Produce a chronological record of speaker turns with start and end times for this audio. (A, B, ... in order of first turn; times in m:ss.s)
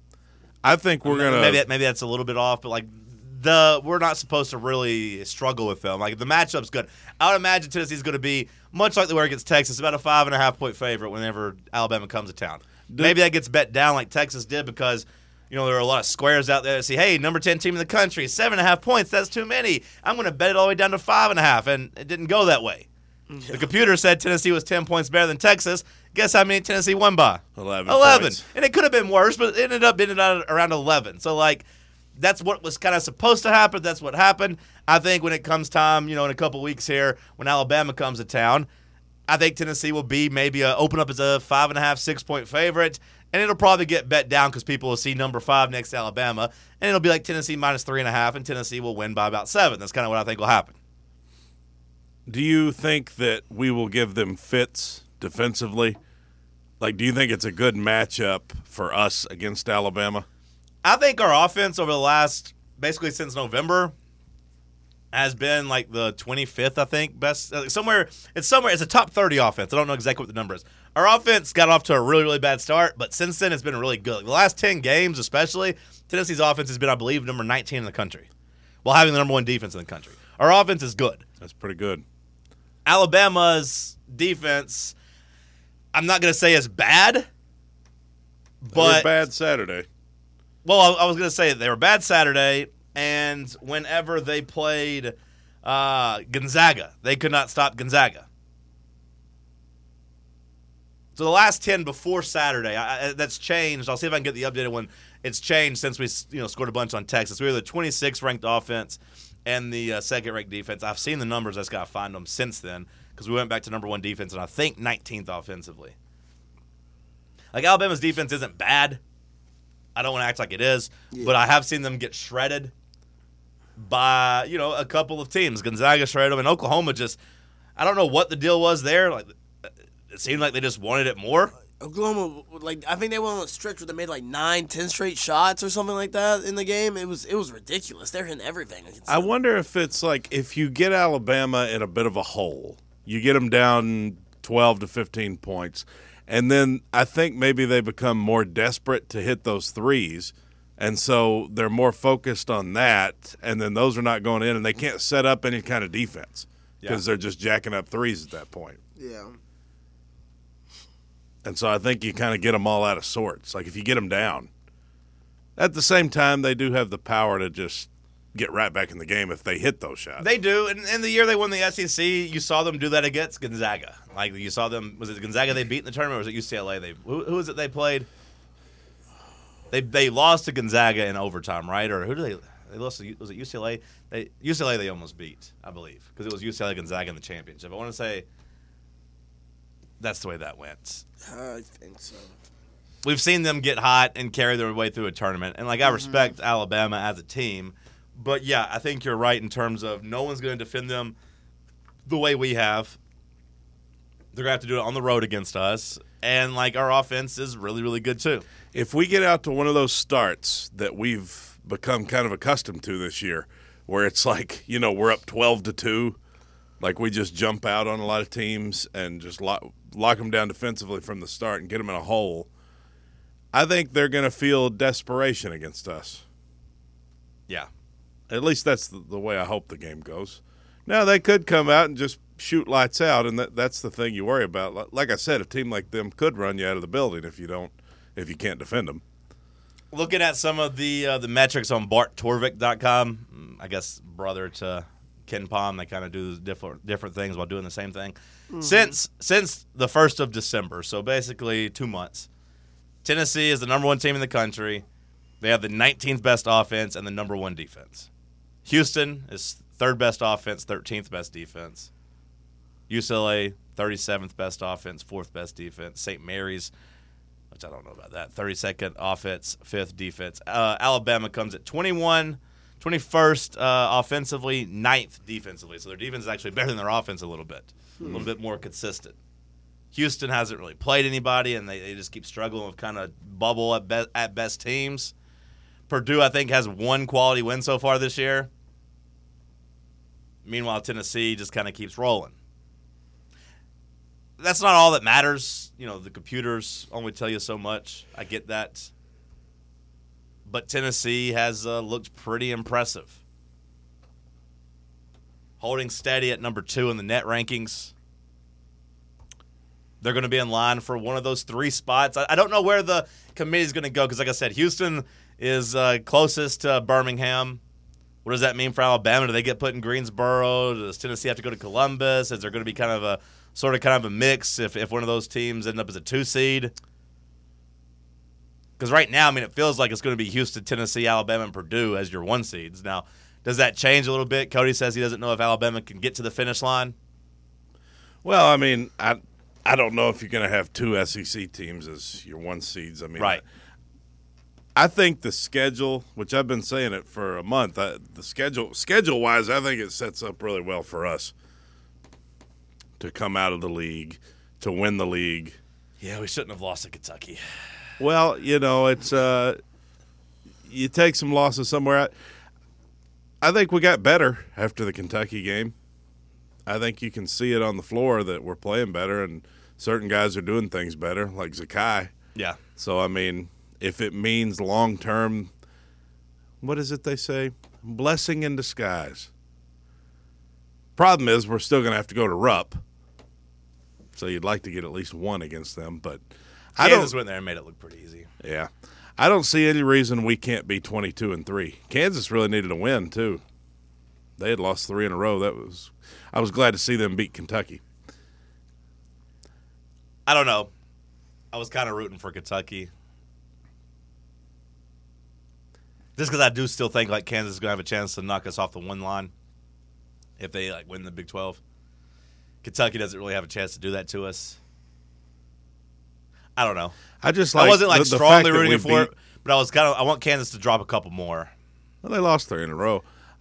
0:00.6-0:01.6 A
0:01.0-0:22.9 B
0:12.9-0:13.2 A
0:23.3-0:23.7 C
0:23.5-0:31.6 B
0:27.6-0:28.4 A
0:32.2-0:38.7 B
0:39.3-0:50.8 B
0:52.3-0:56.0 A
0:56.8-1:00.2 A
1:00.8-1:03.9 B
1:05.1-1:18.3 B
1:18.8-1:21.2 B
1:21.4-1:22.0 A
1:22.8-1:24.9 B
1:25.9-1:27.3 B
1:28.6-1:29.1 B
1:28.7-1:29.9 A
1:30.6-1:38.3 B
1:41.2-1:55.9 B
1:57.5-1:59.0 B
2:00.0-2:02.7 B
2:03.8-2:07.2 B
2:07.8-2:09.3 B
2:10.1-2:11.5 B
2:11.8-2:19.3 C
2:19.1-2:38.8 A
2:39.0-2:39.4 C
2:41.4-2:44.5 A
2:45.6-2:50.2 A
2:50.2-2:58.1 B
2:59.7-3:08.2 B
3:10.0-3:11.0 B
3:11.2-3:12.3 C
3:13.0-3:21.1 B
3:15.9-3:16.3 C
3:22.1-3:23.0 B
3:24.3-3:28.4 B
3:28.7-3:36.2 A
3:36.8-3:42.5 A
3:43.5-3:46.2 A
3:48.3-3:59.0 A
3:59.9-4:12.3 B
4:08.5-4:08.9 C
4:13.0-4:14.8 B
4:15.4-4:18.1 B
4:18.6-4:21.9 B
4:22.9-4:26.7 B
4:27.5-4:39.2 B
4:39.9-4:45.1 B
4:45.9-4:48.5 B
4:50.4-4:52.3 B
4:54.4-4:58.9 B
5:00.5-5:03.2 B
5:05.6-5:07.9 B
5:10.0-5:17.6 B
5:18.2-5:26.7 B
5:28.8-5:36.9 B
5:38.2-5:43.4 A
5:44.8-5:51.3 A
5:53.0-5:55.6 A
5:56.0-5:57.4 B
5:58.0-5:59.6 A
6:00.7-6:02.1 A
6:03.4-6:05.7 A
6:06.6-6:12.1 A
6:12.8-6:15.5 A
6:16.6-6:19.3 A
6:21.0-6:22.8 A
6:24.2-6:26.2 A
6:26.8-6:27.1 A
6:26.8-6:28.3 B
6:28.4-6:33.4 A
6:34.4-6:37.8 A
6:40.2-6:40.7 B
6:41.5-6:42.9 B
6:46.2-6:49.3 B
6:50.4-6:51.6 B
6:52.6-6:54.6 B
6:56.6-6:56.9 B
6:57.2-6:59.1 A
6:57.5-7:01.5 B
7:02.0-7:03.0 A